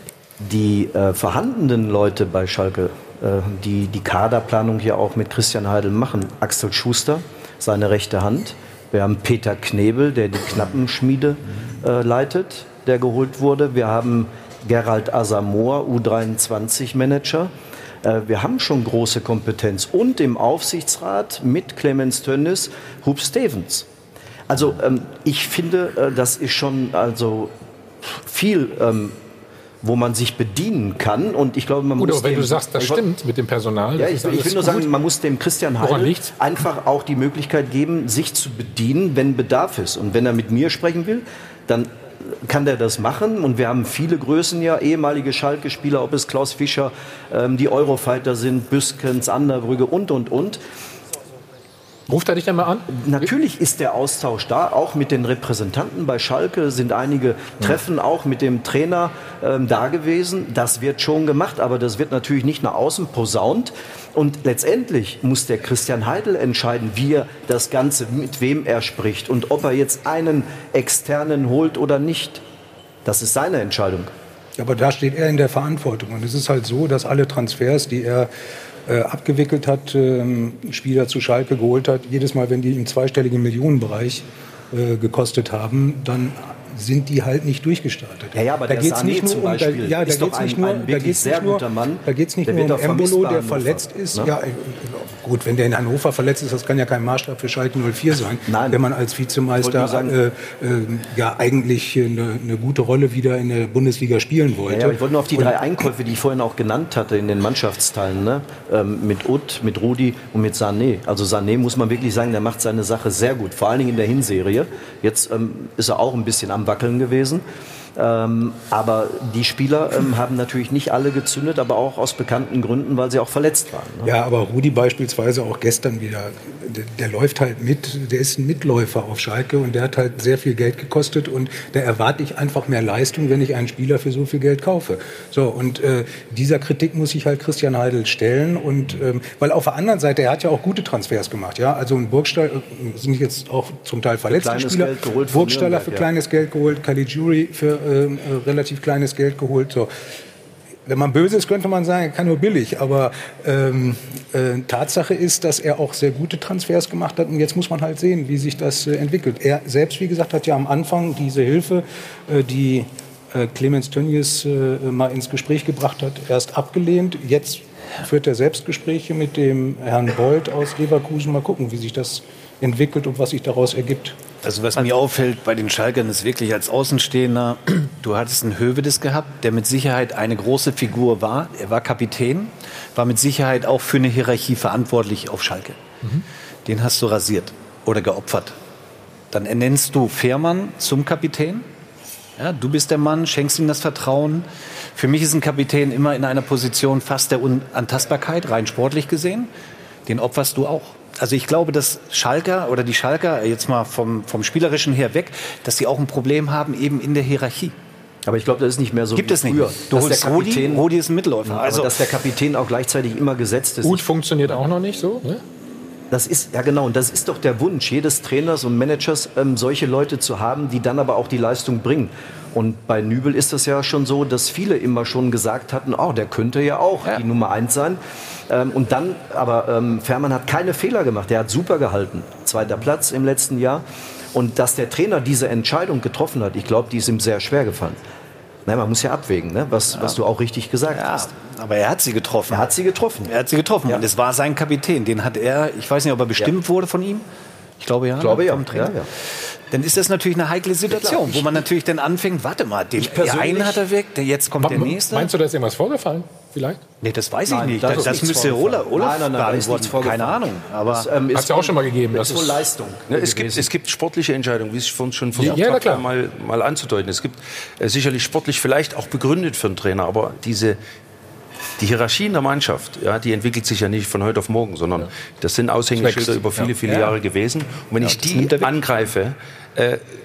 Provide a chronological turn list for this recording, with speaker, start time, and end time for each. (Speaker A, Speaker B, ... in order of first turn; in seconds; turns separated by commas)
Speaker A: 0.4-23.9, Speaker A: 24.5-29.2, Speaker A: 29.8-33.0, Speaker B: 32.0-34.9, Speaker A: 34.0-50.6, Speaker B: 35.8-36.3, Speaker B: 52.1-53.3, Speaker A: 52.9-72.4, Speaker A: 73.0-74.1, Speaker C: 74.6-78.3, Speaker C: 78.9-105.6, Speaker A: 88.3-94.3, Speaker A: 98.5-98.8, Speaker A: 99.6-100.2, Speaker A: 104.7-117.5, Speaker A: 118.0-124.1, Speaker C: 124.0-149.9, Speaker A: 144.3-146.1, Speaker C: 150.9-174.2, Speaker D: 174.4-185.8, Speaker D: 186.7-188.6, Speaker D: 189.3-191.7, Speaker D: 192.4-199.5, Speaker D: 200.1-207.8, Speaker A: 208.3-210.9, Speaker D: 209.2-212.0, Speaker A: 211.4-214.1, Speaker B: 213.8-215.4, Speaker A: 216.1-238.0, Speaker A: 238.7-241.3, Speaker D: 239.9-240.2, Speaker D: 240.9-247.2, Speaker A: 242.5-243.3, Speaker D: 247.8-248.9, Speaker A: 248.2-249.1, Speaker D: 249.7-255.3, Speaker A: 250.9-251.7, Speaker A: 253.0-253.8, Speaker B: 254.6-256.8, Speaker D: 257.0-261.1, Speaker A: 257.5-263.7, Speaker B: 261.3-262.7, Speaker E: 263.1-270.8, Speaker B: 265.4-266.1, Speaker E: 271.8-280.0, Speaker B: 276.0-276.7, Speaker D: 278.0-278.7